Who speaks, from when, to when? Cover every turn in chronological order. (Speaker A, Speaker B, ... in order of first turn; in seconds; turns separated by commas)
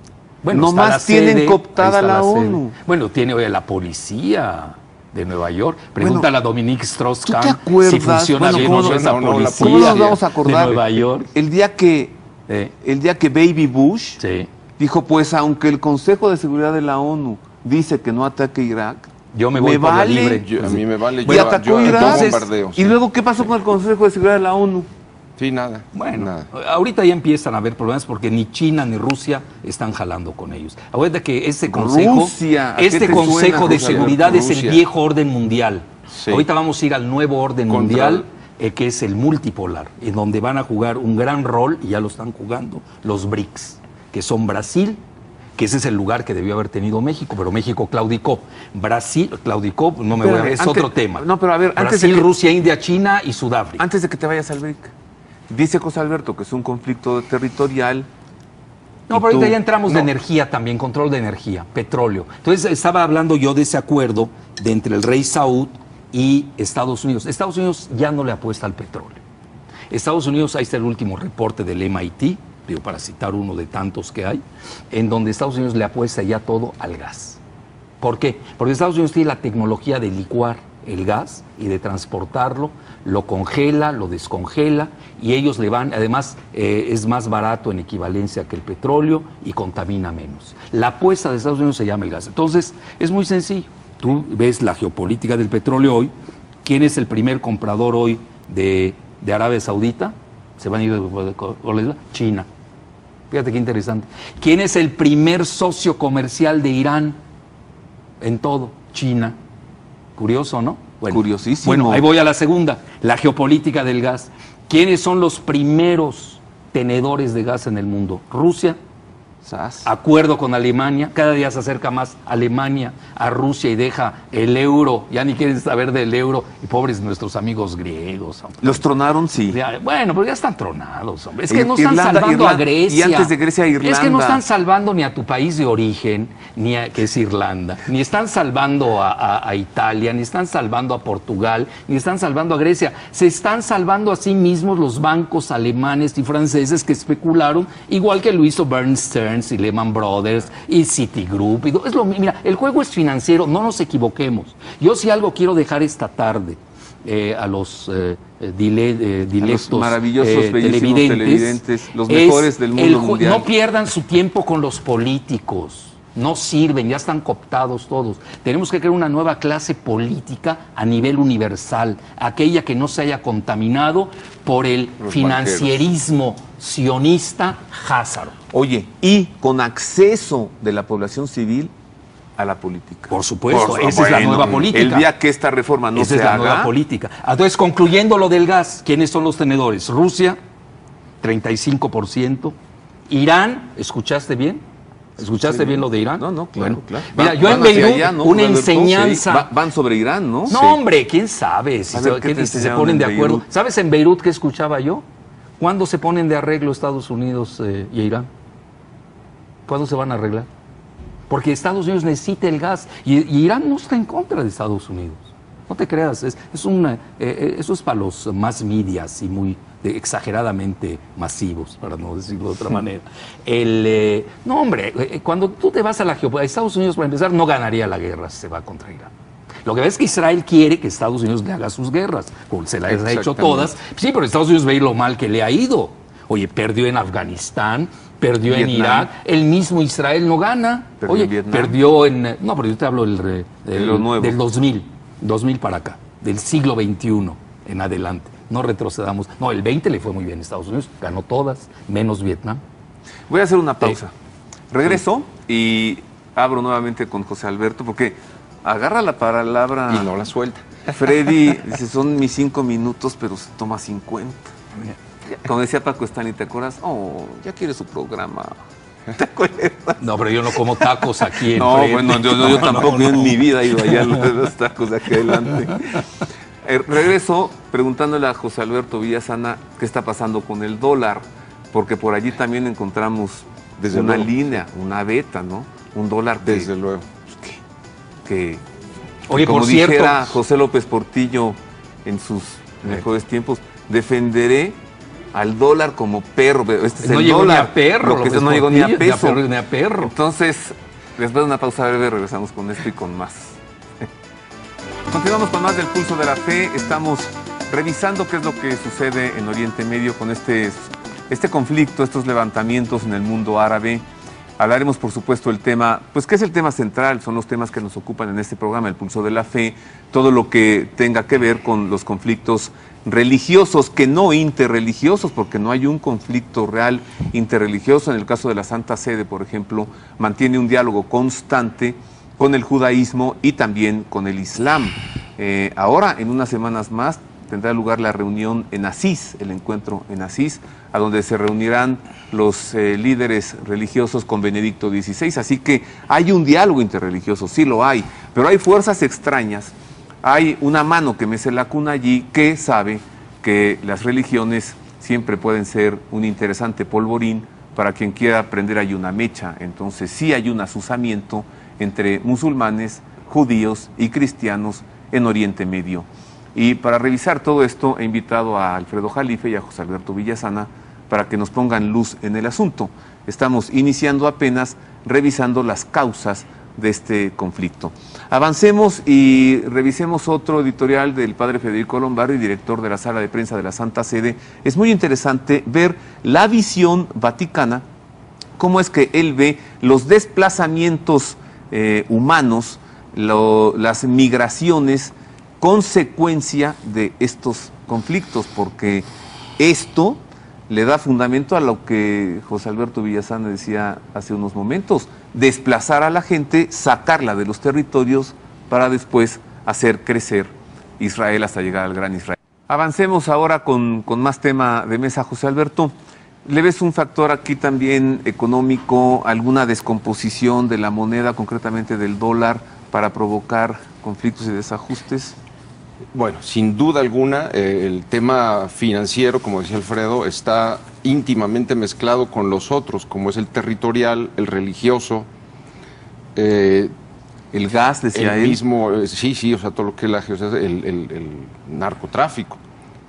Speaker A: 0.4-11.3, Speaker B: 0.5-2.7, Speaker B: 6.0-6.3, Speaker B: 7.2-12.2, Speaker C: 8.4-10.2, Speaker A: 12.5-12.7, Speaker B: 12.8-14.2, Speaker A: 14.2-14.5, Speaker B: 14.8-20.4, Speaker A: 19.3-22.5, Speaker C: 20.4-22.9, Speaker B: 21.2-24.9, Speaker C: 25.4-26.5, Speaker A: 25.9-45.0, Speaker B: 31.7-34.3, Speaker C: 33.6-34.8, Speaker C: 36.1-36.5, Speaker C: 37.7-38.2, Speaker A: 45.6-53.9, Speaker B: 50.2-52.3, Speaker B: 53.8-54.9, Speaker B: 55.5-58.1, Speaker B: 59.1-60.1, Speaker A: 59.1-69.2, Speaker A: 69.9-77.4, Speaker A: 78.0-96.1, Speaker A: 96.6-102.5, Speaker A: 103.3-107.2, Speaker A: 108.2-109.4, Speaker A: 110.2-118.8, Speaker B: 111.1-112.1, Speaker C: 119.5-119.8, Speaker A: 119.8-128.9, Speaker B: 128.6-129.6, Speaker A: 129.5-178.3, Speaker B: 131.5-134.4, Speaker B: 159.4-163.5, Speaker C: 175.0-175.8, Speaker B: 178.5-181.7, Speaker B: 182.4-186.7, Speaker A: 183.1-185.1, Speaker C: 183.6-184.6, Speaker A: 185.9-190.4, Speaker A: 191.2-192.6, Speaker A: 193.1-194.6, Speaker A: 195.2-199.5, Speaker B: 195.5-200.6, Speaker A: 200.5-205.0, Speaker C: 200.5-200.8, Speaker B: 201.9-203.5, Speaker A: 205.6-208.3, Speaker A: 209.7-210.5, Speaker A: 211.3-229.1, Speaker A: 229.7-252.6, Speaker B: 232.9-233.7, Speaker B: 238.5-239.1, Speaker B: 241.0-241.8, Speaker B: 243.7-244.4, Speaker B: 253.3-254.1, Speaker B: 254.7-260.1, Speaker C: 259.9-260.6, Speaker B: 260.9-264.5, Speaker B: 265.3-268.6, Speaker B: 269.1-270.0, Speaker A: 270.0-274.3, Speaker B: 270.8-275.8, Speaker B: 276.6-286.7, Speaker C: 283.8-284.3, Speaker C: 286.4-287.1, Speaker B: 287.3-287.6, Speaker B: 288.2-288.6, Speaker A: 289.3-290.4, Speaker B: 289.3-294.8, Speaker B: 295.3-299.4, Speaker A: 297.0-300.1, Speaker B: 300.0-303.6, Speaker B: 305.1-314.1, Speaker B: 314.6-387.9, Speaker B: 388.6-399.1, Speaker B: 399.6-415.9, Speaker B: 416.4-425.4, Speaker C: 426.1-435.3, Speaker C: 436.4-436.9, Speaker B: 437.5-438.6, Speaker C: 438.1-442.6